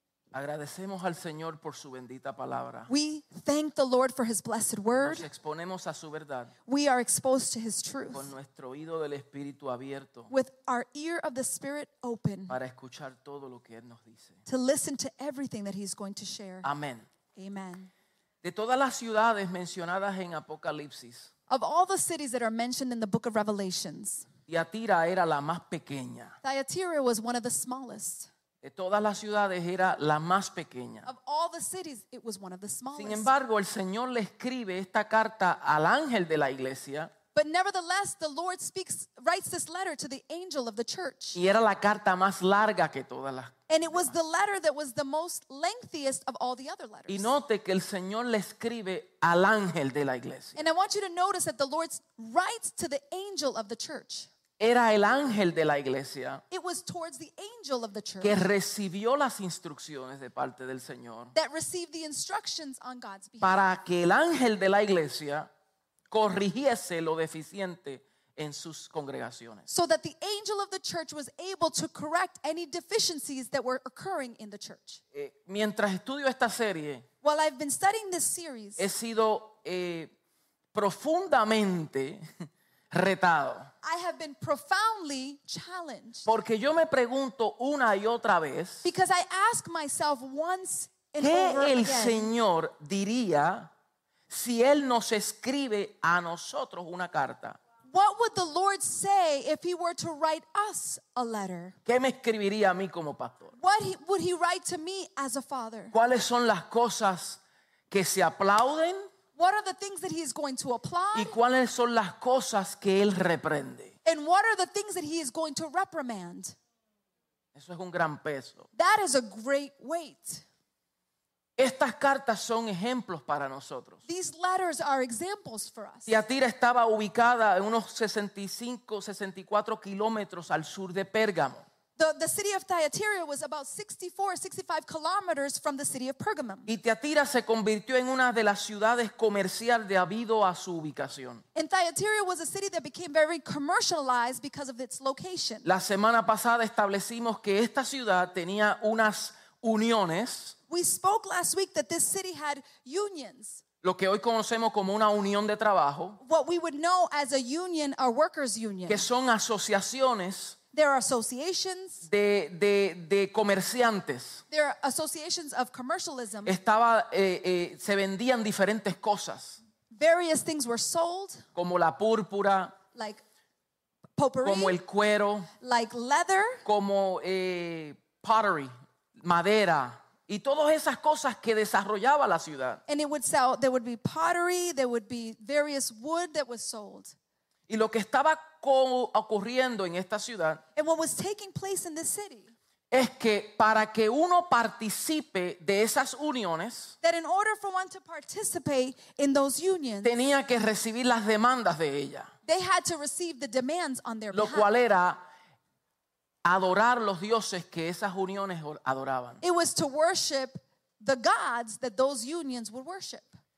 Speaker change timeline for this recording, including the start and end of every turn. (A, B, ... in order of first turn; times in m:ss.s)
0:00.3-0:02.9 A
0:02.9-0:05.3 B
0:04.9-0:06.5 A
0:06.7-0:08.3 B
0:08.1-0:10.3 A
0:10.3-0:12.6 B
0:12.5-0:14.4 A
0:14.5-0:16.7 B
0:16.6-0:17.1 A
0:17.4-0:17.9 B
0:18.4-0:21.3 A
0:21.5-0:24.3 B
0:24.5-0:26.4 A
0:26.4-0:28.3 B
0:28.6-0:31.1 A
0:31.1-0:33.3 B
0:33.0-0:37.1 A
0:37.3-0:41.4 B
0:41.3-0:44.1 A
0:43.7-0:47.3 B
0:47.1-0:50.6 A
0:50.6-0:54.3 B
0:54.6-0:56.4 A
0:56.5-0:58.5 B
0:58.2-1:01.3 A
1:01.3-1:03.6 B
1:03.4-1:05.5 A
1:06.1-1:09.7 A
1:09.7-1:15.0 B
1:15.1-1:17.0 A
1:17.2-1:18.9 B
1:18.8-1:20.1 A
1:20.7-1:22.3 A
1:22.9-1:23.7 A
1:23.8-1:26.3 B
1:26.3-1:28.9 A
1:28.8-1:32.3 B
1:31.2-1:33.7 A
1:34.3-1:37.6 A
1:37.9-1:41.8 B
1:41.9-1:43.5 A
1:43.6-1:46.0 B
1:45.9-1:49.1 A
1:49.4-1:51.4 B
1:51.1-1:53.9 A
1:54.0-1:56.6 B
1:57.5-1:58.7 A
1:58.8-2:00.4 B
2:01.6-2:04.0 A
2:04.1-2:06.1 B
2:06.1-2:11.6 A
2:12.0-2:16.7 B
2:16.7-2:21.4 A
2:21.6-2:25.7 B
2:25.6-2:30.6 A
2:30.7-2:33.6 B
2:33.8-2:36.2 A
2:36.2-2:39.1 B
2:38.9-2:40.6 A
2:40.7-2:42.1 B
2:42.0-2:44.4 A
2:44.5-2:46.6 B
2:46.4-2:49.6 A
2:49.9-2:51.4 B
2:51.6-2:52.8 A
2:52.9-2:53.2 B
2:54.2-2:54.8 B
2:54.4-2:55.5 A
2:55.6-2:56.6 B
2:56.6-3:02.8 A
3:02.9-3:07.1 B
3:07.7-3:10.6 A
3:10.8-3:12.5 B
3:12.9-3:16.9 A
3:17.0-3:20.1 B
3:20.0-3:22.3 A
3:22.5-3:24.7 B
3:24.3-3:25.2 A
3:26.4-3:29.4 A
3:29.4-3:33.3 B